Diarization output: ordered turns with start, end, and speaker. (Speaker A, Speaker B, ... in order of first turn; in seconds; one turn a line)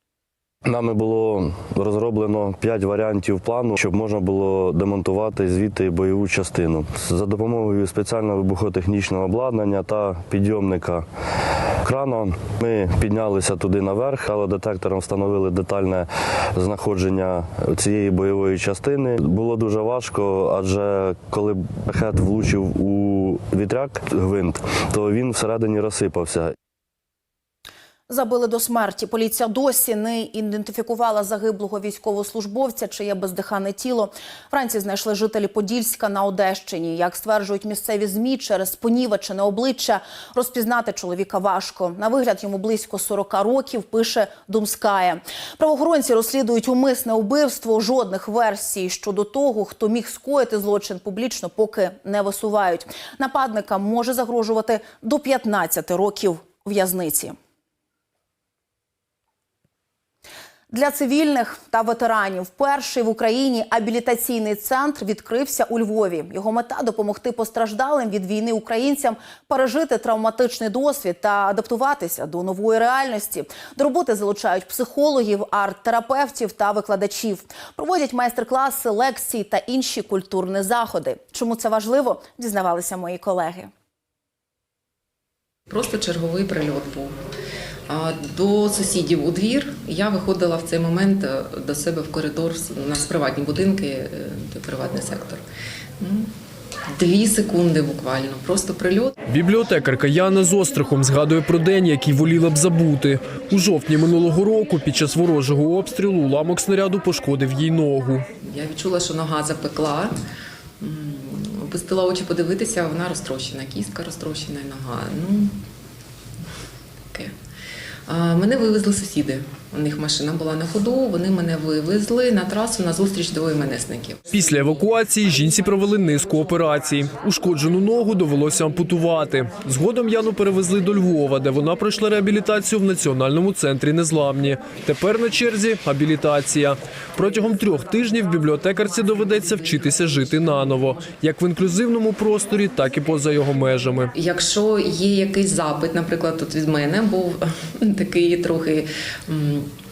Speaker A: 0.6-11.1
Speaker A: 11.8-26.5
Speaker B: 28.1-57.3
Speaker B: 60.7-83.7
Speaker C: 85.7-87.1
Speaker C: 87.9-95.4
Speaker C: 96.0-96.3
Speaker C: 97.0-99.1
Speaker D: 99.3-108.2
Speaker C: 108.4-110.1
Speaker C: 110.8-115.5
Speaker C: 118.1-124.2
Speaker D: 124.3-144.1
Speaker C: 144.1-149.7